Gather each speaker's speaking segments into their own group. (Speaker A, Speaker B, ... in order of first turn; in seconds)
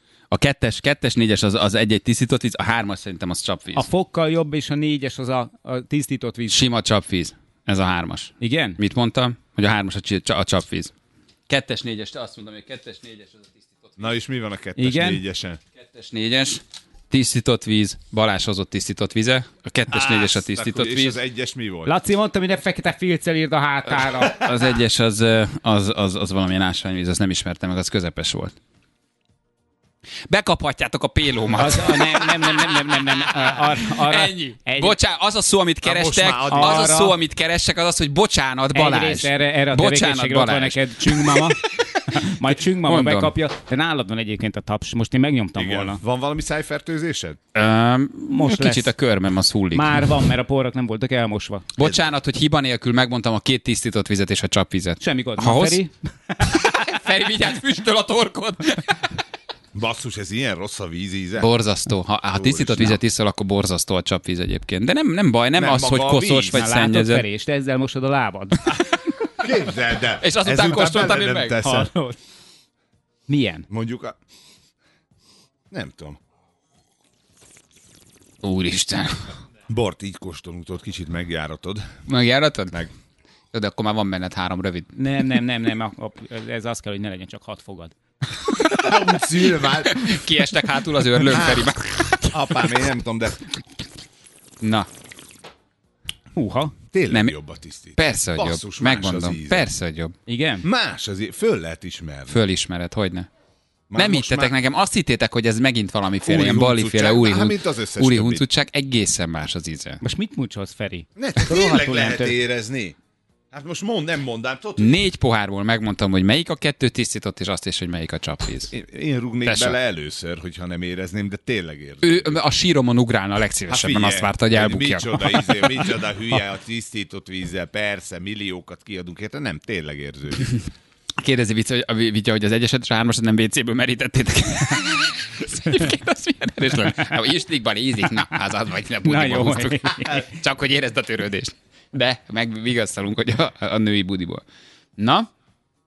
Speaker A: 0.3-3.9, 6.5-10.9, 11.5-14.1, 15.8-21.2, 24.2-28.6, 30.3-43.3, 47.5-50.1, 51.8-55.8, 56.4-59.1, 61.4-67.2, 70.2-71.6, 78.4-79.3, 82.1-82.9, 83.5-84.9, 88.6-89.1, 89.6-92.7, 94.6-94.9, 97.1-97.4, 98.0-100.1, 102.3-103.3, 104.0-110.0, 114.8-118.7, 119.5-119.8, 122.0-125.9, 131.2-144.4, 145.0-145.3
Speaker B: 3.8-6.6, 8.4-8.8, 14.8-15.2, 21.9-24.5, 31.5-35.0, 36.3-37.2, 38.7-46.0, 48.3-48.9, 49.7-51.7, 55.0-56.9, 66.5-69.1, 71.6-72.2, 73.3-73.7, 85.0-87.9, 96.3-96.8, 100.3-100.7, 110.0-112.4, 139.1-140.3
Speaker C: 14.0-15.6, 19.9-21.9, 24.4-24.7, 35.8-36.9, 45.6-47.4, 51.8-52.1, 59.7-61.5, 62.3-63.0, 65.5-66.6, 69.4-71.9, 73.7-74.2, 75.7-76.2, 79.7-81.9, 88.6-90.4, 91.2-91.7, 92.3-93.5, 96.9-99.7, 100.6-102.4, 103.9-104.6, 106.2-108.5, 111.2-113.0, 113.5-115.0, 118.7-122.4, 123.7-130.6